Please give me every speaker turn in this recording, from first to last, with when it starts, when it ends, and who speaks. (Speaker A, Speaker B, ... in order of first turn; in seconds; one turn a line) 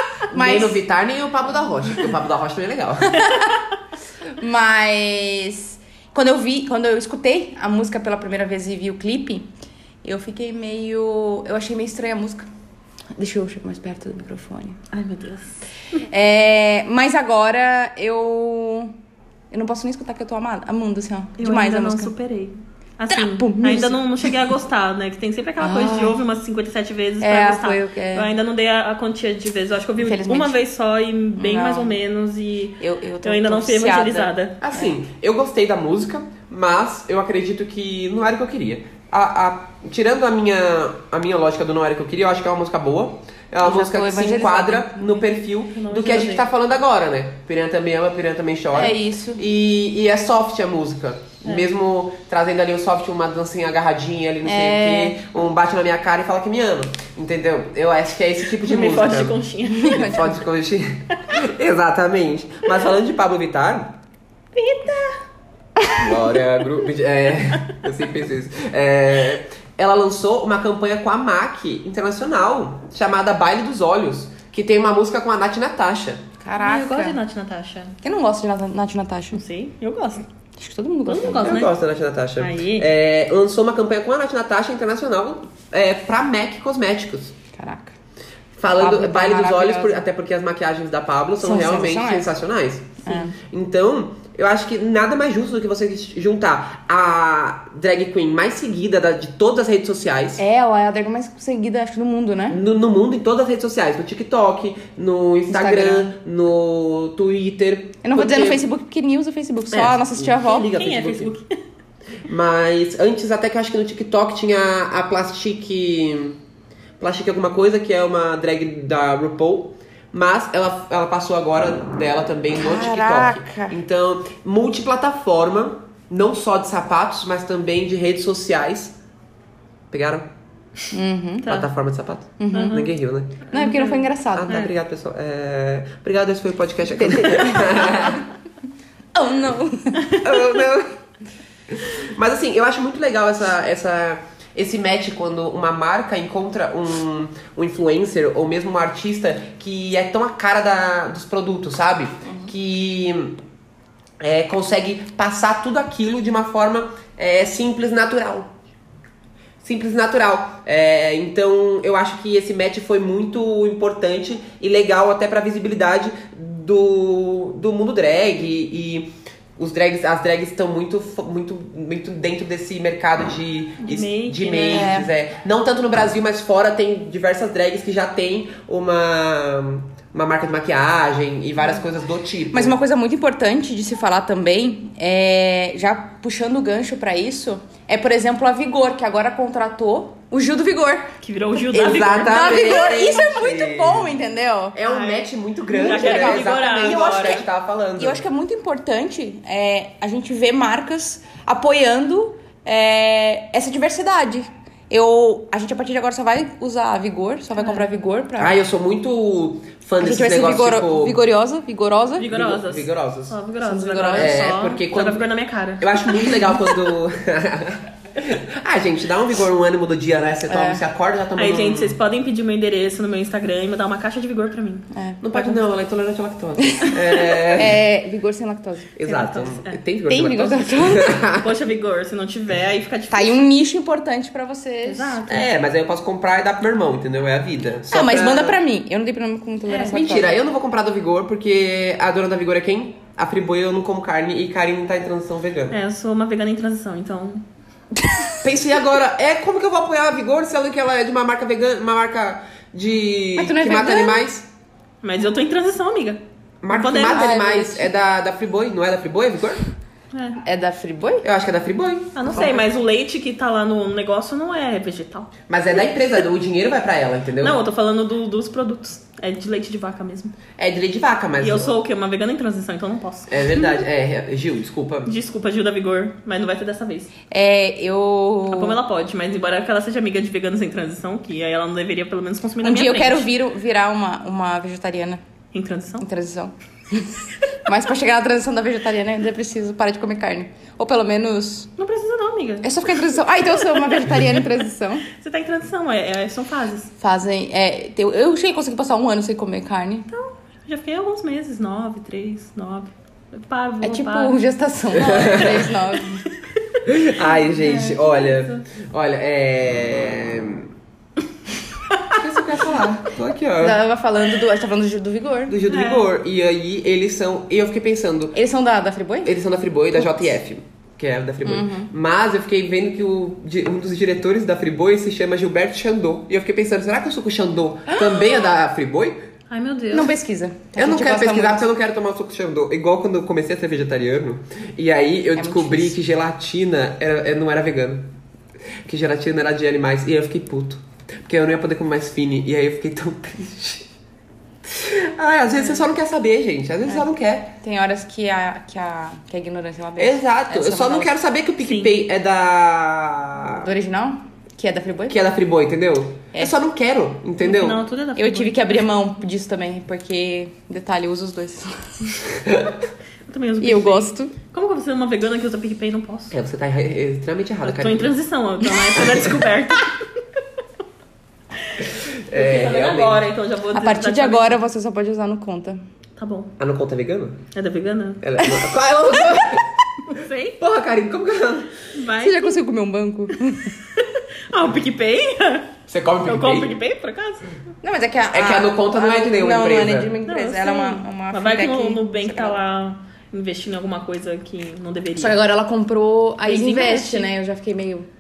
Speaker A: 0.3-0.8
Speaker B: 0.3-3.3
Speaker A: 3.2-3.6
Speaker A: 4.4-9.5
Speaker A: 10.0-12.5
Speaker A: 13.2-14.8
Speaker C: 14.9-15.6
Speaker A: 16.1-18.9
Speaker A: 19.5-22.1
Speaker C: 21.4-34.6
Speaker A: 23.1-24.3
Speaker A: 25.6-26.2
Speaker A: 27.2-28.3
Speaker A: 30.0-30.6
Speaker A: 31.4-32.0
Speaker A: 32.8-34.9
Speaker B: 34.6-64.0
Speaker A: 43.6-45.2
Speaker C: 45.7-46.5
Speaker A: 48.7-49.4
Speaker A: 54.4-55.2
Speaker C: 58.6-60.1
Speaker A: 59.7-60.4
Speaker C: 64.5-65.2
Speaker B: 66.0-76.2
Speaker A: 76.4-77.2
Speaker C: 76.6-78.0
Speaker A: 78.0-79.4
Speaker C: 79.3-80.3
Speaker A: 80.6-81.6
Speaker C: 81.1-81.7
Speaker B: 81.4-87.4
Speaker C: 82.4-82.9
Speaker A: 87.5-87.9
Speaker B: 88.6-100.4
Speaker A: 88.8-90.0
Speaker A: 91.4-92.3
Speaker A: 93.0-93.3
Speaker A: 100.4-102.6
Speaker B: 102.5-108.6
Speaker A: 105.5-106.1
Speaker A: 108.0-110.7
Speaker B: 109.7-111.3
Speaker C: 110.5-111.5
Speaker B: 112.3-116.4
Speaker B: 117.0-129.0
Speaker A: 122.6-123.8
Speaker B: 129.9-130.3
Speaker A: 130.9-131.6
Speaker C: 131.4-131.7
Speaker B: 131.4-133.5
Speaker A: 132.4-132.9
Speaker C: 132.5-132.9
Speaker C: 133.5-134.7
Speaker A: 133.5-134.7
Speaker B: 134.3-138.2
Speaker A: 137.1-138.2
Speaker A: 139.2-140.6
Speaker B: 140.2-140.9
Speaker B: 141.7-153.4
Speaker B: 154.2-158.5
Speaker B: 159.6-182.8
Speaker C: 173.8-174.9
Speaker A: 174.7-175.1
Speaker A: 182.5-191.1
Speaker C: 191.2-193.1
Speaker B: 191.7-194.2
Speaker A: 192.2-194.8
Speaker B: 194.8-198.2
Speaker C: 194.9-197.4
Speaker A: 195.8-197.5
Speaker A: 198.0-208.6
Speaker C: 207.6-207.8
Speaker B: 208.4-211.2
Speaker A: 210.0-212.3
Speaker C: 212.2-216.5
Speaker B: 212.3-213.4
Speaker A: 213.6-214.6
Speaker B: 214.1-215.2
Speaker B: 215.8-222.0
Speaker A: 220.5-220.8
Speaker C: 221.4-224.9
Speaker A: 224.9-225.5
Speaker B: 225.2-227.8
Speaker A: 226.6-229.0
Speaker B: 229.0-231.5
Speaker C: 229.1-229.8
Speaker A: 230.1-231.2
Speaker C: 231.3-233.4
Speaker A: 233.1-235.2
Speaker C: 234.8-235.5
Speaker B: 235.3-238.6
Speaker A: 237.9-240.4
Speaker C: 239.7-240.0
Speaker B: 239.9-245.8
Speaker C: 245.7-247.4
Speaker A: 248.1-248.4
Speaker B: 248.4-254.5
Speaker A: 253.4-254.3
Speaker C: 255.0-257.3
Speaker B: 256.6-259.6
Speaker A: 256.9-257.9
Speaker C: 260.1-260.4
Speaker A: 260.4-261.2
Speaker B: 261.2-262.6
Speaker C: 262.1-265.3
Speaker B: 265.5-267.6
Speaker C: 267.4-270.4
Speaker B: 270.6-271.8
Speaker C: 271.4-273.8
Speaker B: 273.3-275.1
Speaker C: 275.1-277.1
Speaker A: 277.3-278.8
Speaker C: 278.5-283.3
Speaker A: 282.6-285.2
Speaker C: 285.5-286.1
Speaker A: 286.0-291.7
Speaker C: 291.8-292.9
Speaker A: 292.6-295.1
Speaker C: 293.5-294.4
Speaker C: 295.1-296.9
Speaker A: 297.0-300.1
Speaker C: 300.1-304.4
Speaker A: 303.8-306.3
Speaker B: 304.9-305.7
Speaker C: 305.2-305.5
Speaker B: 306.9-310.7
Speaker C: 307.2-308.6
Speaker B: 312.1-313.8
Speaker A: 313.6-315.6
Speaker B: 315.5-318.4
Speaker C: 315.7-316.1
Speaker A: 318.4-319.4
Speaker B: 319.2-329.2
Speaker A: 321.4-321.9
Speaker C: 329.5-330.1
Speaker A: 329.9-331.6
Speaker B: 330.8-338.1
Speaker A: 335.4-336.0
Speaker B: 338.9-343.9
Speaker B: 344.6-347.5
Speaker A: 347.6-351.1
Speaker B: 350.0-353.7
Speaker C: 351.6-351.9
Speaker A: 353.6-355.2
Speaker B: 355.1-357.8
Speaker C: 357.4-358.7
Speaker A: 358.2-362.3
Speaker B: 362.5-362.7
Speaker C: 363.3-366.4
Speaker A: 363.6-364.3
Speaker B: 366.3-368.1
Speaker C: 367.6-370.1
Speaker B: 369.0-369.3
Speaker C: 371.7-374.6
Speaker B: 372.3-373.3
Speaker A: 373.7-375.8
Speaker C: 376.2-376.5
Speaker B: 376.6-377.4
Speaker C: 377.5-378.3
Speaker B: 378.2-381.7
Speaker C: 380.1-380.6
Speaker C: 381.9-382.6
Speaker A: 382.2-383.8
Speaker C: 383.9-387.5
Speaker B: 385.9-386.8
Speaker A: 387.8-392.6
Speaker B: 388.3-390.2
Speaker C: 390.3-395.4
Speaker A: 395.2-398.1
Speaker C: 396.4-397.3